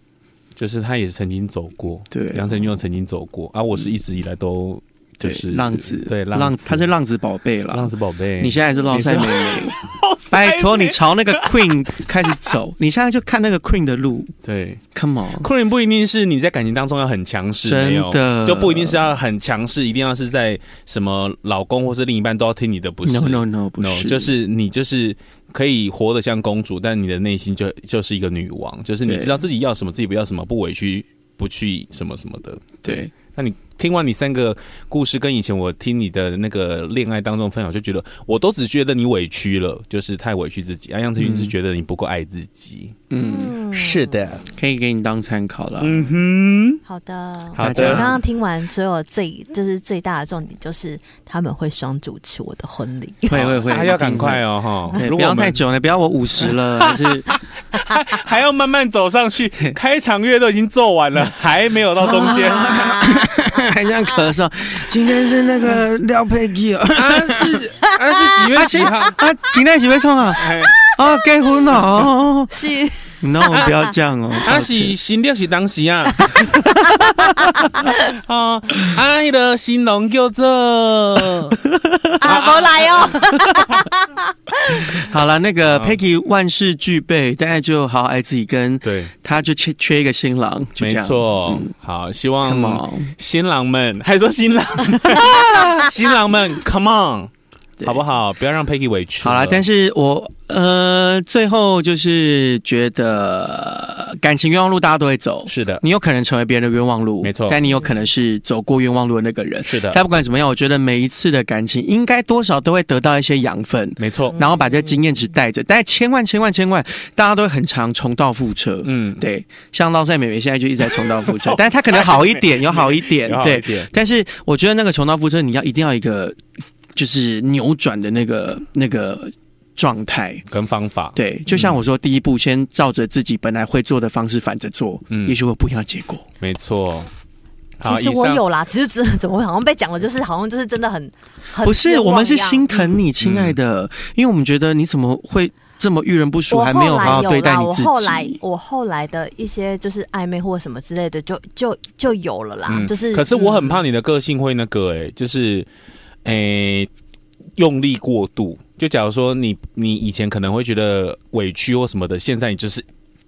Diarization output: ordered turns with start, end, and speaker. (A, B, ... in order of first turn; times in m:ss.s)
0:00.5-0:06.9 A
0:02.1-0:02.5 B
0:05.2-0:09.8 B
0:07.7-0:12.6 A
0:10.3-0:14.3 B
0:14.4-0:14.8 A
0:14.9-0:15.5 B
0:15.4-0:43.0 A
0:17.6-0:19.0 B
0:23.0-0:24.3 B
0:29.0-0:29.3 B
0:32.8-0:33.1 B
0:41.2-0:41.5 B
0:43.1-0:43.5 B
0:43.2-0:44.4 C
0:43.7-0:44.4 A
0:44.6-0:46.1 B
0:45.8-0:46.8 A
0:46.9-0:53.5 C
0:47.5-0:48.2 A
0:47.6-0:48.2 B
0:53.3-0:57.3 B
0:53.3-0:55.6 A
0:56.4-1:03.0 A
1:02.0-1:07.6 B
1:02.1-1:03.6 C
1:06.9-1:09.2 A
1:07.8-1:09.1 C
1:08.5-1:12.5 B
1:10.4-1:10.7 A
1:10.4-1:11.8 C
1:12.5-1:13.9 C
1:13.2-1:14.9 B
1:14.4-1:16.8 A
1:16.3-1:18.0 C
1:17.2-1:17.6 B
1:17.8-1:21.6 A
1:21.7-1:22.2 B
1:22.2-1:24.8 C
1:22.2-1:23.7 A
1:24.8-1:31.7 B
1:25.7-1:26.0 A
1:28.8-1:29.1 A
1:30.8-1:37.3 A
1:32.4-1:33.1 B
1:35.1-1:35.7 B
1:37.8-1:39.6 A
1:39.2-2:06.4 B
1:45.5-1:45.8 A
1:47.2-1:47.6 A
1:49.6-1:50.0 A
1:54.0-1:54.4 A
1:54.3-1:55.0 C
1:58.8-1:59.2 A
2:00.8-2:03.9 A
2:06.9-2:10.4 B
2:10.5-2:11.8 A
2:11.1-2:16.2 B
2:15.1-2:15.3 A
2:16.4-2:17.1 A
2:17.8-2:18.4 A
2:17.8-2:22.9 C
2:21.6-2:28.4 B
2:23.2-2:23.6 A
2:26.5-2:33.8 C
2:32.7-2:35.7 A
2:36.2-2:36.9 A
2:37.6-2:42.8 A